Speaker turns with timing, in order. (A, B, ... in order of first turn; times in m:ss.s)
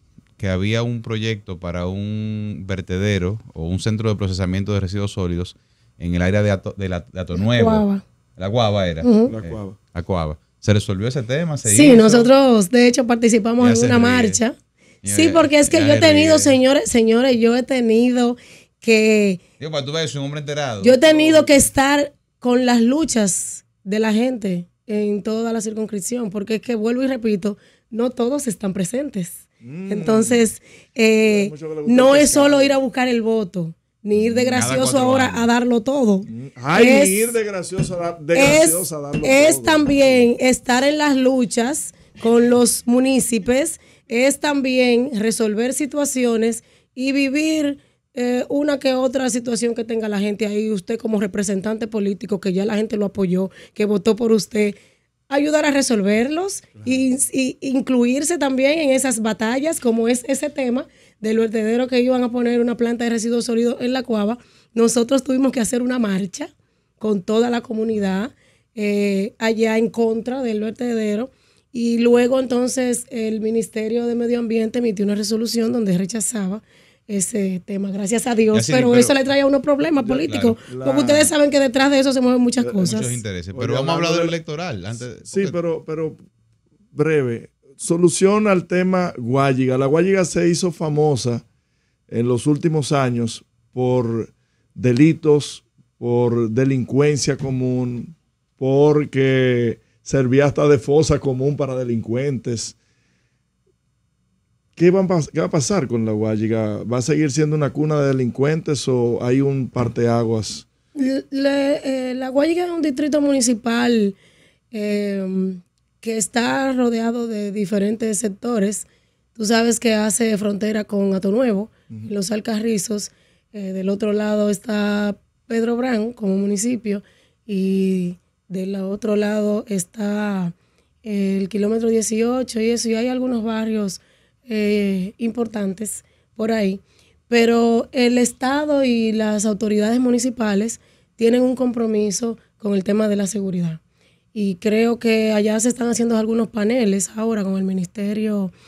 0:00.4-0:07.8 A
0:07.4-0:08.0 B
0:08.4-0:12.3 A
0:09.0-0:09.3 B
0:09.3-0:09.8 C
0:11.6-0:14.6 B
0:13.6-0:14.4 A
0:15.0-0:16.6 A
0:15.1-0:19.4 B
0:19.6-0:21.0 A
0:20.8-0:37.4 B
0:21.1-0:21.5 C
0:29.6-0:30.4 C
0:31.2-0:32.8 C
0:34.2-0:35.5 A
0:36.3-0:40.3 C
0:38.3-0:54.8 B
0:55.3-1:23.2 B
1:18.5-1:19.1 A
1:19.9-1:21.3 C
1:22.6-1:23.0 C
1:22.9-1:25.6 A
1:23.5-1:24.4 C
1:25.2-1:26.2 C
1:26.9-1:31.4 C
1:32.1-1:42.8 C
1:44.8-1:50.7 C
1:51.0-1:54.2 B
1:54.7-2:10.5 B
2:11.0-2:23.8 B
2:24.3-2:28.5 B